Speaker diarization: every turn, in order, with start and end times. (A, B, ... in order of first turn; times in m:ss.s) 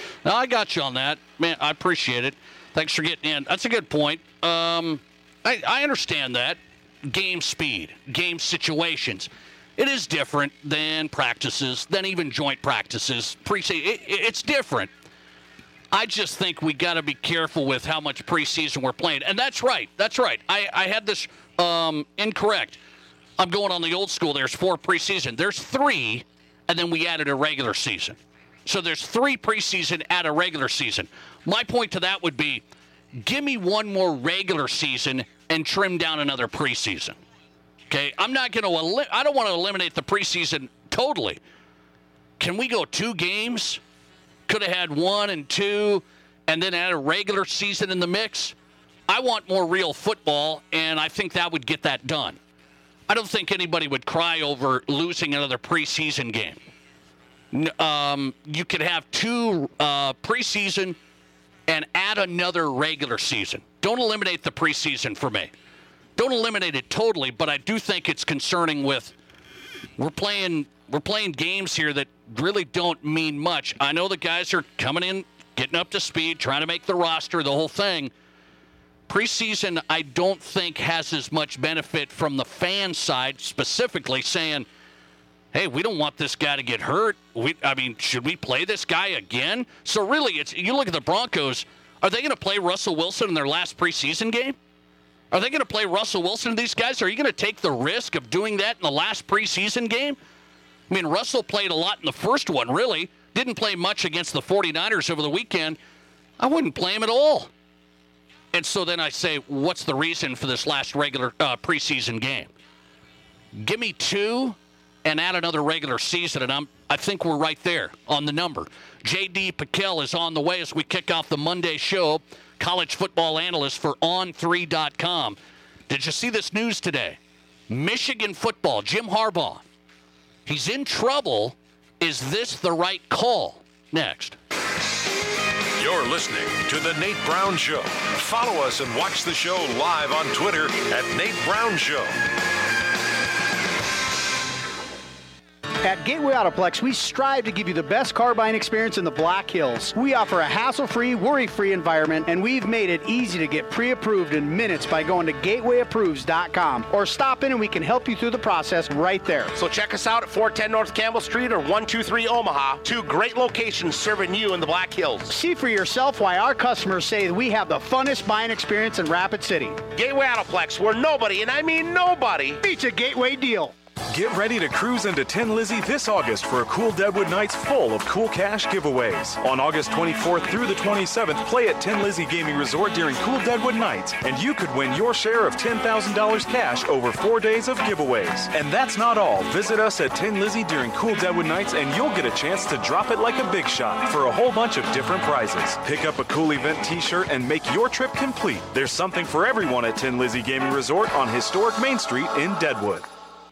0:00.2-0:14.9 A
0:15.9-0:22.8 A
0:23.4-0:32.6 A
0:33.2-0:37.2 A
0:37.9-0:41.4 A
0:42.4-0:43.8 A
0:44.5-0:48.5 A
0:49.1-0:52.4 A
0:53.1-0:56.6 A
0:57.5-1:01.0 A
1:01.7-1:05.5 A
1:06.2-1:09.2 A
1:10.0-1:18.1 A
1:19.1-1:24.7 A
1:25.5-1:34.6 A
1:35.3-1:40.2 A
1:40.9-1:45.8 A
1:46.4-1:47.5 A
1:48.5-1:52.5 A
1:53.6-2:05.4 A
2:05.9-2:07.2 A
2:07.7-2:09.6 A
2:10.5-2:14.4 A
2:15.8-2:22.2 B
2:25.8-2:39.5 C
2:39.6-2:45.3 D
2:45.3-2:49.8 C
2:49.9-2:52.6 D
2:52.6-2:53.7 C
2:54.1-3:23.1 E